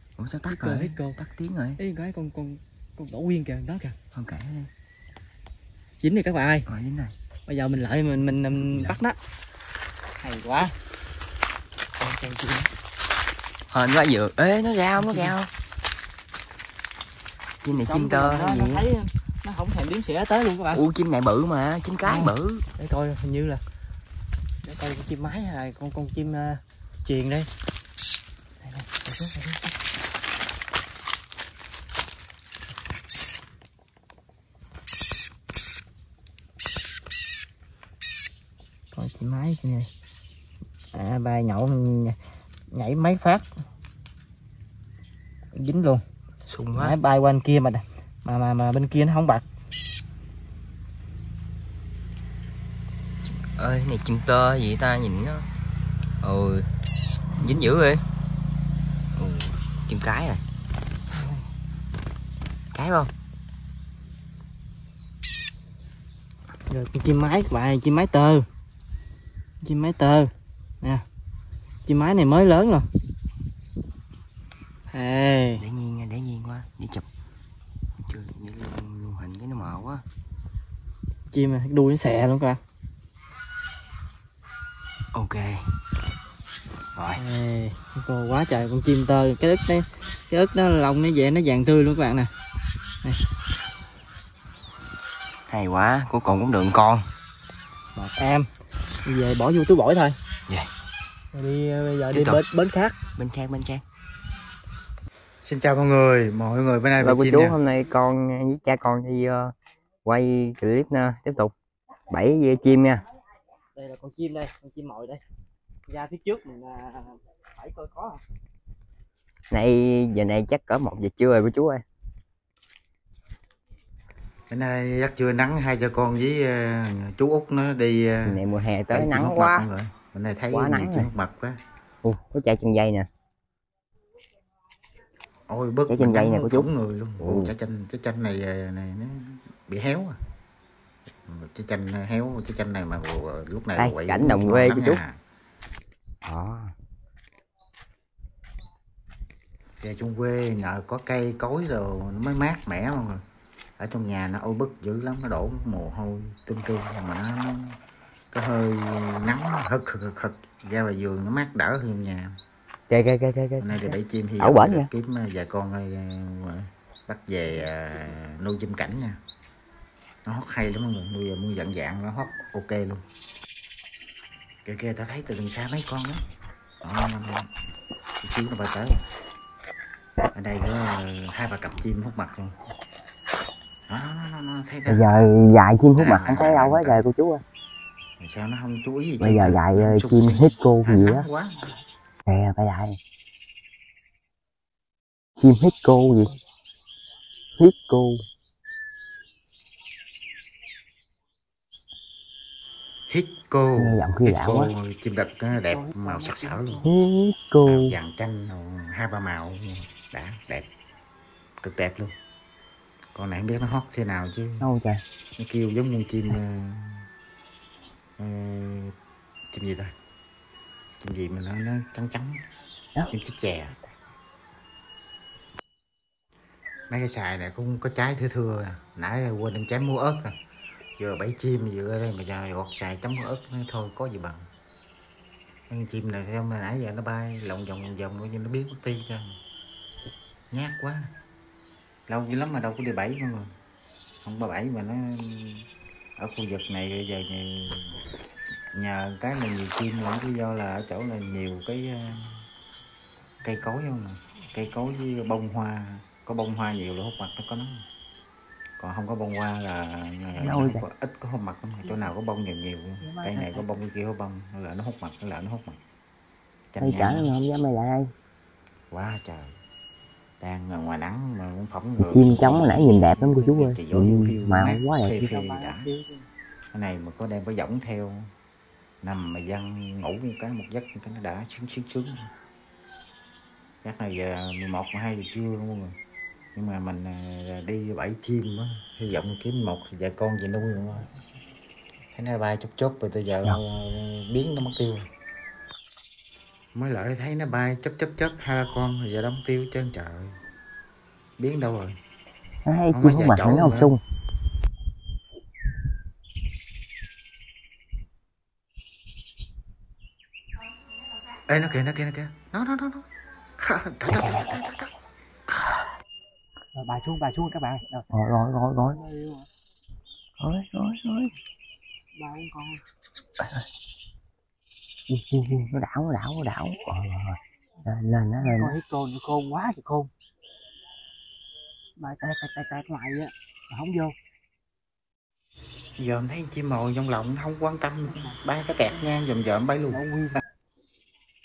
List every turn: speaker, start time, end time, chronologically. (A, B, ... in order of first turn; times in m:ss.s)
0:00.2-0:01.8 A
0:00.5-0:01.2 B
0:01.8-0:04.0 B
0:04.1-0:04.7 A
0:06.0-0:06.7 B
0:06.7-0:07.2 A
0:07.5-0:09.2 B
0:08.7-0:09.0 A
0:10.2-0:10.7 B
0:12.0-0:12.7 B
0:13.7-0:15.5 A
0:15.0-0:15.4 B
0:17.6-0:18.9 A
0:17.7-0:20.8 B
0:20.7-0:22.6 A
0:22.0-0:23.6 B
0:24.6-0:27.5 B
0:28.6-0:29.7 B
0:38.9-0:39.9 B
0:40.9-0:42.2 B
0:42.7-0:43.5 B
0:45.5-0:46.0 B
0:46.5-0:47.0 A
0:46.8-0:49.4 B
0:53.4-0:55.5 A
0:56.2-0:56.7 A
0:57.4-0:57.7 B
0:57.4-0:58.0 A
0:59.2-1:00.4 A
1:01.1-1:01.5 B
1:02.7-1:03.1 A
1:06.7-1:08.4 B
1:09.6-1:10.3 B
1:11.9-1:12.9 B
1:14.9-1:15.6 B
1:15.6-1:17.0 A
1:18.1-1:20.0 A
1:21.3-1:22.6 B
1:25.1-1:25.7 A
1:27.0-1:27.2 A
1:27.2-1:32.3 B
1:35.5-1:37.1 A
1:38.0-1:38.5 B
1:39.0-1:40.2 B
1:41.3-1:43.0 B
1:42.1-1:42.4 A
1:43.2-1:43.8 A
1:45.4-1:47.6 C
1:47.0-1:49.5 A
1:50.0-1:51.5 A
1:52.1-1:53.0 A
1:53.8-1:55.2 B
1:55.9-1:58.2 B
1:59.5-2:01.8 A
2:04.5-2:11.6 C
2:08.3-2:09.7 A
2:10.5-2:11.1 A
2:12.0-2:13.1 A
2:15.5-2:20.2 C
2:15.9-2:16.7 A
2:17.2-2:17.5 A
2:21.3-2:25.2 C
2:23.8-2:25.0 A
2:26.2-2:26.7 A
2:29.8-2:33.2 C
2:33.8-2:37.8 C
2:38.3-2:42.4 C
2:42.9-2:44.9 A
2:43.6-2:49.2 C
2:50.2-2:53.0 C
2:54.6-2:56.2 C
2:56.8-2:57.5 C
2:58.2-2:59.0 C
3:00.3-3:02.6 C
3:03.9-3:05.3 C
3:04.9-3:07.4 A
3:06.0-3:07.0 C
3:08.2-3:11.7 C
3:09.2-3:11.3 A
3:12.3-3:13.0 A
3:15.4-3:16.3 A
3:17.6-3:18.2 A
3:23.1-3:26.8 C
3:23.8-3:24.7 A
3:25.5-3:26.9 B
3:26.8-3:28.0 A
3:27.6-3:30.7 C
3:31.6-3:32.1 C
3:33.2-3:34.7 C
3:34.6-3:35.0 A
3:35.4-3:37.1 C
3:38.2-3:38.9 C
3:39.5-3:39.9 C
3:41.0-3:42.4 C
3:43.1-3:43.8 C
3:46.9-3:50.4 C
3:51.0-3:54.5 C
3:55.7-3:59.4 C
4:00.5-4:01.1 C
4:02.1-4:03.5 C
4:04.2-4:05.7 C
4:06.2-4:08.0 C
4:08.7-4:12.4 C
4:13.4-4:17.8 C
4:18.8-4:25.8 C
4:20.4-4:20.9 A
4:21.8-4:22.1 B
4:23.0-4:23.7 B
4:26.7-4:27.3 C
4:26.8-4:28.1 A
4:28.9-4:29.5 C
4:30.4-4:35.9 C
4:32.0-4:35.3 A
4:35.3-4:36.3 B
4:36.7-4:38.3 C
4:39.0-4:42.3 C
4:43.8-4:46.0 C
4:46.6-4:51.1 C
4:52.2-4:55.0 C
4:56.7-5:00.4 C
5:01.4-5:02.0 C
5:02.7-5:04.0 A
5:02.9-5:04.0 C
5:11.5-5:13.1 C
5:13.6-5:14.9 C
5:14.1-5:14.7 A
5:16.7-5:18.1 B
5:18.1-5:19.0 A
5:18.8-5:19.5 B
5:20.4-5:21.3 A
5:22.2-5:22.8 B
5:25.1-5:28.8 A
5:28.4-5:30.1 B
5:32.0-5:34.2 B
5:36.0-5:40.0 C
5:38.1-5:38.4 B
5:39.9-5:40.4 B